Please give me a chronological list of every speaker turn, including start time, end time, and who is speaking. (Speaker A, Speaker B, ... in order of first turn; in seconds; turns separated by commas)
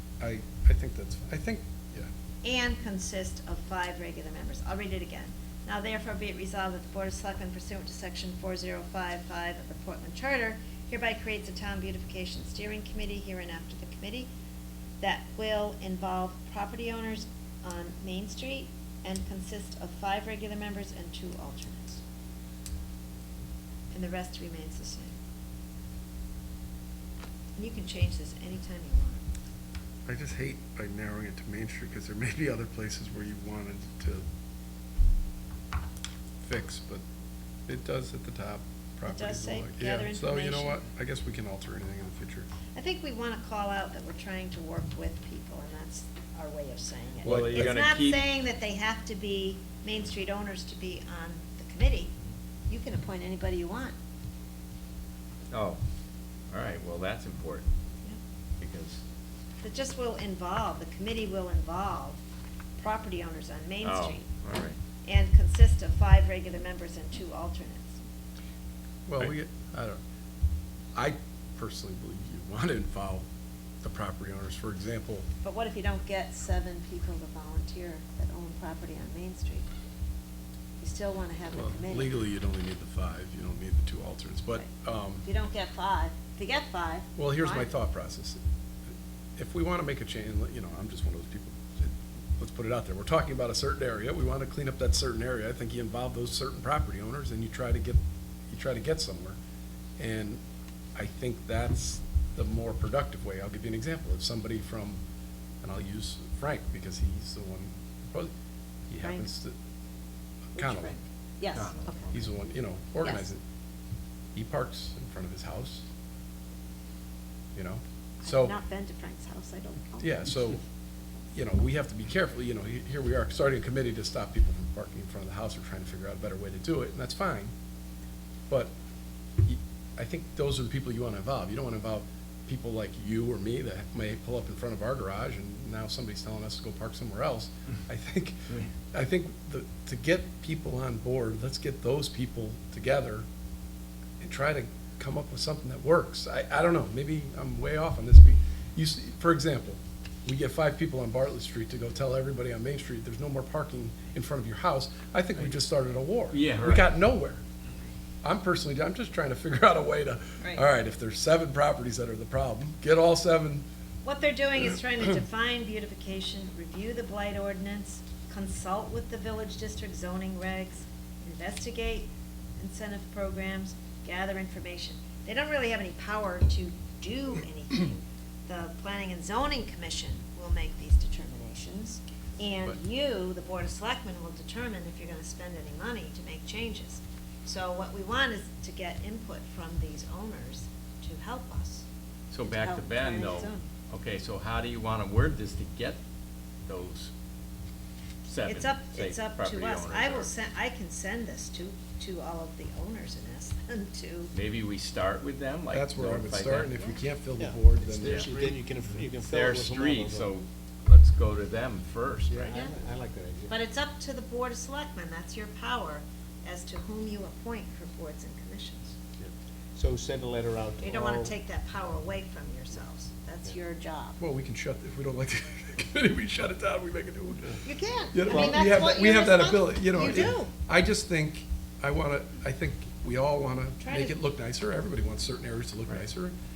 Speaker A: 0.2-2.1, Speaker B: 2.4-14.3, Speaker B: 15.0-22.0, Speaker B: 23.9-25.1, Speaker B: 27.6-29.2, Speaker A: 30.1-34.2, Speaker A: 36.4-37.0, Speaker A: 37.7-42.5, Speaker B: 39.0-40.8, Speaker B: 42.7-52.1, Speaker A: 47.2-47.9, Speaker C: 47.2-48.2, Speaker B: 52.7-54.0, Speaker C: 55.5-55.8, Speaker C: 56.5-57.7, Speaker C: 58.6-59.0, Speaker B: 59.6-62.2, Speaker B: 62.8-64.3, Speaker C: 63.8-64.8, Speaker B: 65.0-68.0, Speaker A: 69.1-70.0, Speaker A: 70.9-73.2, Speaker A: 73.8-75.2, Speaker B: 75.4-79.7, Speaker B: 80.8-82.2, Speaker A: 81.5-85.2, Speaker B: 85.2-87.7, Speaker A: 87.2-88.4, Speaker A: 89.4-99.4, Speaker A: 100.0-100.4, Speaker A: 101.0-105.0, Speaker A: 105.6-108.3, Speaker A: 108.9-109.5, Speaker B: 109.0-109.3, Speaker A: 110.5-111.0, Speaker B: 110.6-112.1, Speaker C: 111.5-112.3, Speaker A: 112.1-113.4, Speaker B: 113.0-113.3, Speaker A: 114.3-115.8, Speaker A: 117.5-118.6, Speaker B: 118.2-120.3, Speaker A: 120.0-120.6, Speaker A: 121.3-127.5, Speaker A: 129.4-143.2, Speaker A: 144.2-157.4, Speaker C: 156.3-156.9, Speaker A: 158.2-163.6, Speaker B: 164.0-191.8, Speaker C: 192.3-196.0, Speaker B: 192.4-193.7, Speaker C: 196.7-197.1, Speaker C: 198.2-200.3, Speaker B: 198.4-204.3, Speaker C: 204.3-206.8, Speaker A: 205.7-208.3, Speaker D: 207.4-210.3, Speaker E: 208.0-208.6, Speaker C: 208.0-208.3, Speaker C: 209.2-212.6, Speaker E: 212.3-213.5, Speaker B: 213.5-219.0, Speaker E: 219.2-221.3, Speaker B: 220.8-224.2, Speaker A: 224.2-227.6, Speaker B: 227.6-230.5, Speaker A: 228.1-236.3, Speaker B: 233.8-234.2